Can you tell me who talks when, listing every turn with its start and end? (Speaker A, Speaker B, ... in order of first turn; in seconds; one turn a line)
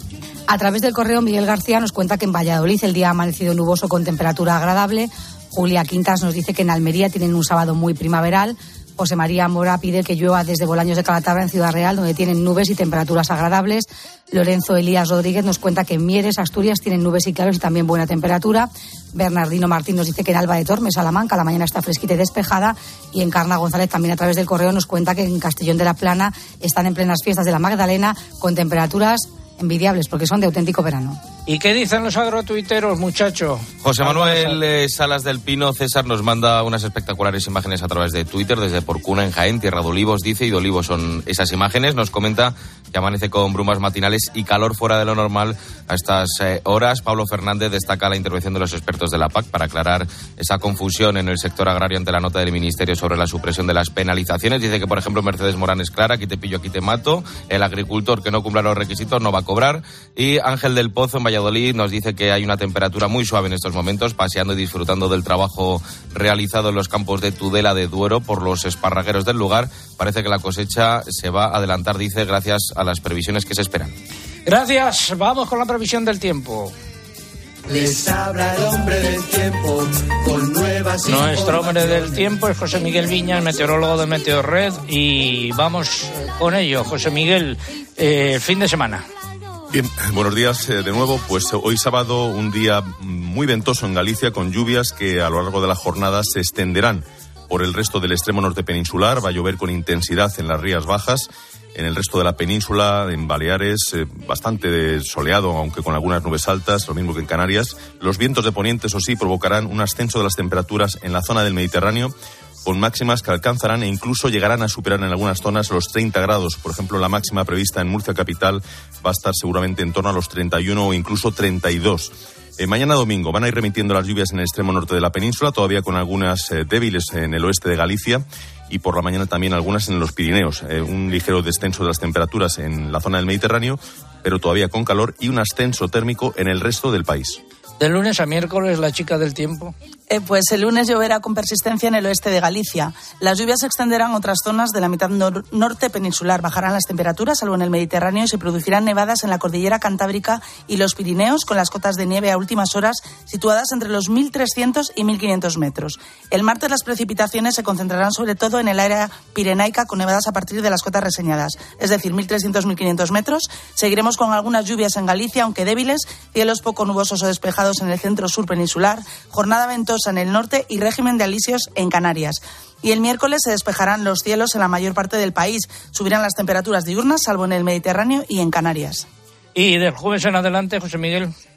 Speaker A: 0.5-31.2
Speaker B: 31.5-34.6
Speaker C: 33.8-73.9
Speaker B: 74.5-76.7
Speaker D: 77.7-82.2
Speaker B: 81.1-89.0
Speaker E: 89.7-137.4
Speaker B: 137.8-139.7
Speaker F: 140.1-179.1
Speaker B: 179.5-181.3